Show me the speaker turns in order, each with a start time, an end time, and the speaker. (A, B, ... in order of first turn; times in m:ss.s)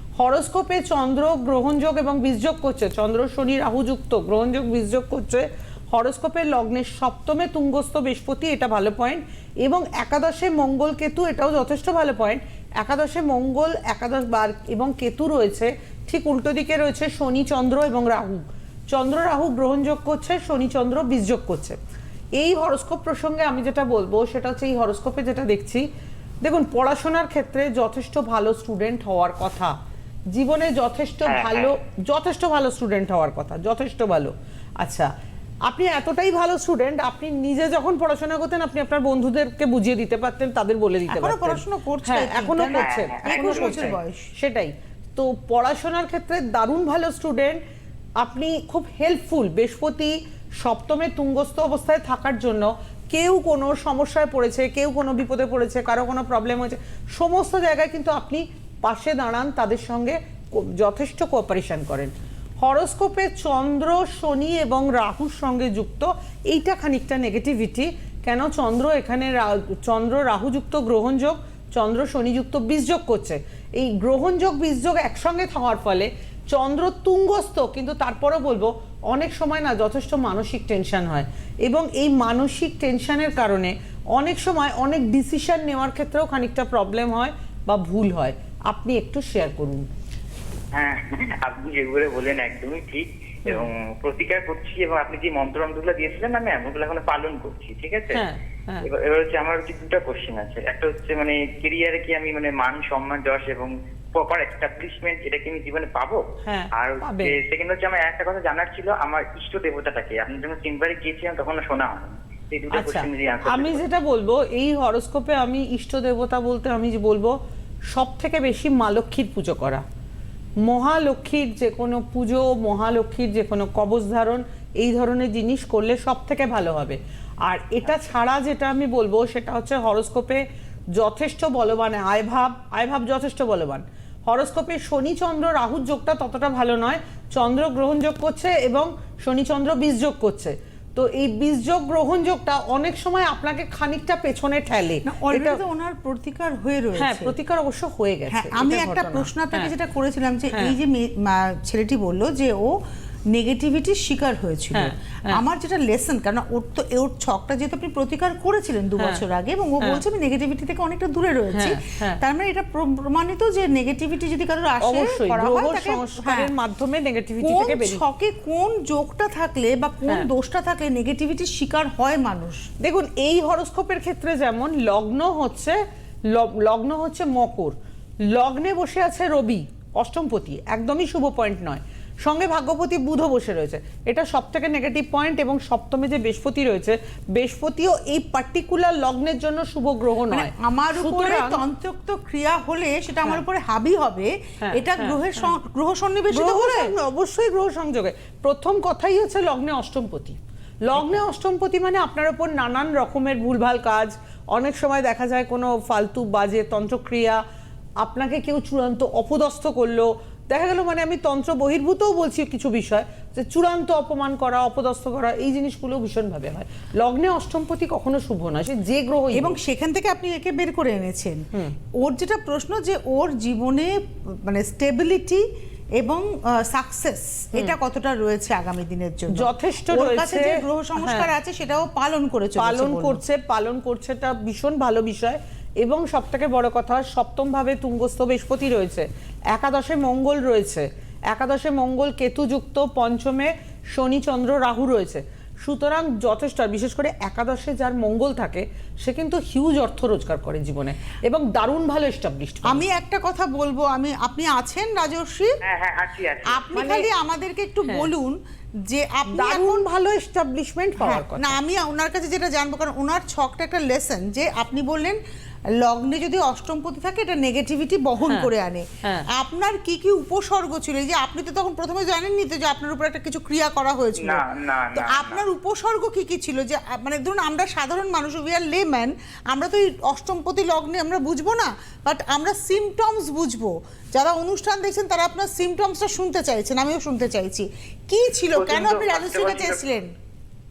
0:00.2-0:21.8 A
0:22.4-0:25.9 A
0:26.4-0:29.8 A
0:30.3-0:35.1 A
0:31.2-0:31.7 B
0:35.6-0:47.6 A
0:41.1-0:44.3 C
0:42.8-0:43.9 B
0:48.2-1:29.9 A
1:30.7-1:38.2 B
1:38.1-1:38.8 A
1:38.8-1:53.8 B
1:46.4-1:47.4 A
1:52.7-1:57.4 A
1:57.9-1:59.8 A
2:00.6-2:25.6 A
2:25.0-2:27.3 C
2:27.0-2:29.7 A
2:28.3-2:32.8 C
2:33.3-2:46.5 C
2:34.7-2:35.4 A
2:39.0-2:39.2 A
2:41.5-2:42.2 A
2:44.8-2:48.0 A
2:47.4-2:52.7 C
2:52.8-3:11.6 A
3:10.3-3:16.9 C
3:14.6-3:15.5 A
3:16.3-3:27.4 A
3:28.0-3:39.5 A
3:39.3-3:45.4 C
3:46.0-3:53.2 C
3:49.3-3:51.3 A
3:52.6-4:12.8 A
4:12.6-4:15.5 C
4:15.6-4:16.8 B
4:16.5-4:19.8 C
4:16.7-4:17.1 A
4:19.3-4:21.6 A
4:21.0-4:25.2 C
4:25.8-4:50.1 C
4:28.3-4:28.5 A
4:34.2-4:35.4 B
4:48.5-4:49.8 B